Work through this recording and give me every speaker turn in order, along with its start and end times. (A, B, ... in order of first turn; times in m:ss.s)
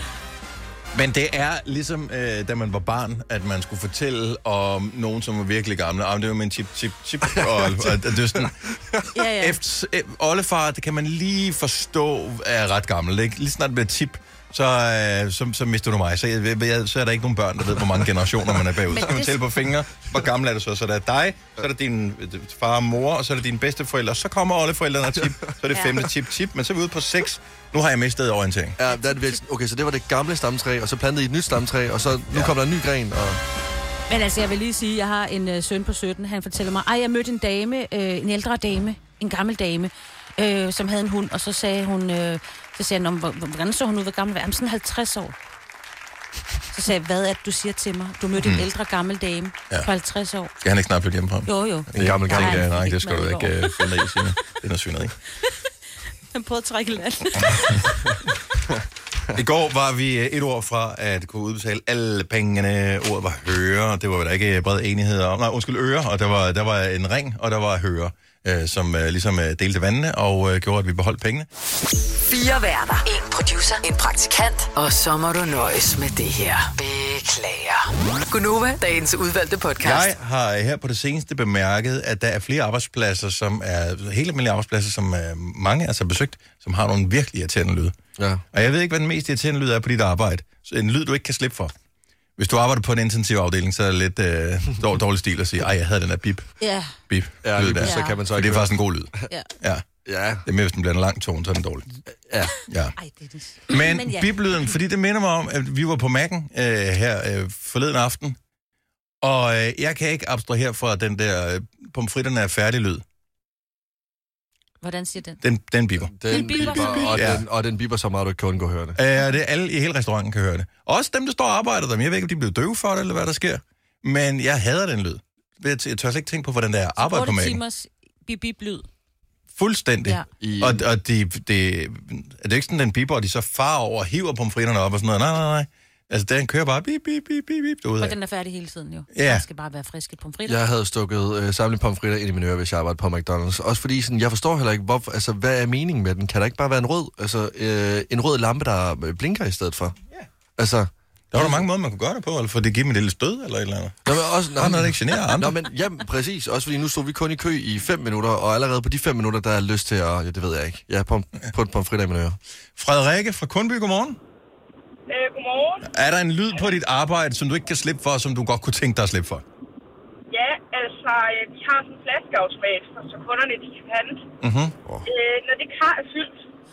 0:00.9-0:08.5 A
0:07.3-0:09.1 B
0:09.1-0:09.6 C
0:09.4-0:28.8 A
0:18.9-0:19.4 C
0:25.7-0:26.0 C
0:28.8-0:33.4 B
0:28.9-0:29.4 C
0:32.3-0:32.6 A
0:34.1-0:45.3 C
0:46.7-0:50.5 C
0:48.4-0:48.6 A
0:50.6-0:55.1 A
0:51.4-0:53.8 C
0:51.9-0:52.7 B
0:56.3-0:58.0 C
0:59.3-1:11.5 A
1:12.2-1:20.1 D
1:19.8-1:28.0 A
1:28.2-1:28.4 B
1:28.5-1:31.7 A
1:32.4-1:36.5 A
1:36.6-1:37.0 C
1:37.1-1:39.9 A
1:37.4-1:39.2 B
1:37.8-1:38.2 C
1:40.0-1:40.4 B
1:40.4-1:41.9 A
1:42.2-1:42.6 B
1:42.7-1:42.9 A
1:43.0-1:44.4 C
1:43.7-1:48.4 A
1:49.2-1:53.0 A
1:54.8-1:55.4 C
1:55.4-1:57.4 A
1:56.1-1:59.0 B
1:56.3-1:57.3 C
1:59.0-2:07.6 A
2:07.0-2:08.9 C
2:09.5-2:18.2 A
2:10.4-2:10.8 B
2:18.0-2:20.6 C
2:19.1-2:19.4 A
2:20.4-2:29.9 B
2:30.6-2:31.6 B
2:31.3-2:35.6 A
2:34.0-2:42.4 B
2:42.8-2:44.2 A
2:45.1-2:45.8 E
2:45.8-2:49.4 A
2:50.3-2:54.2 E
2:54.4-2:54.8 A
2:55.0-2:56.4 E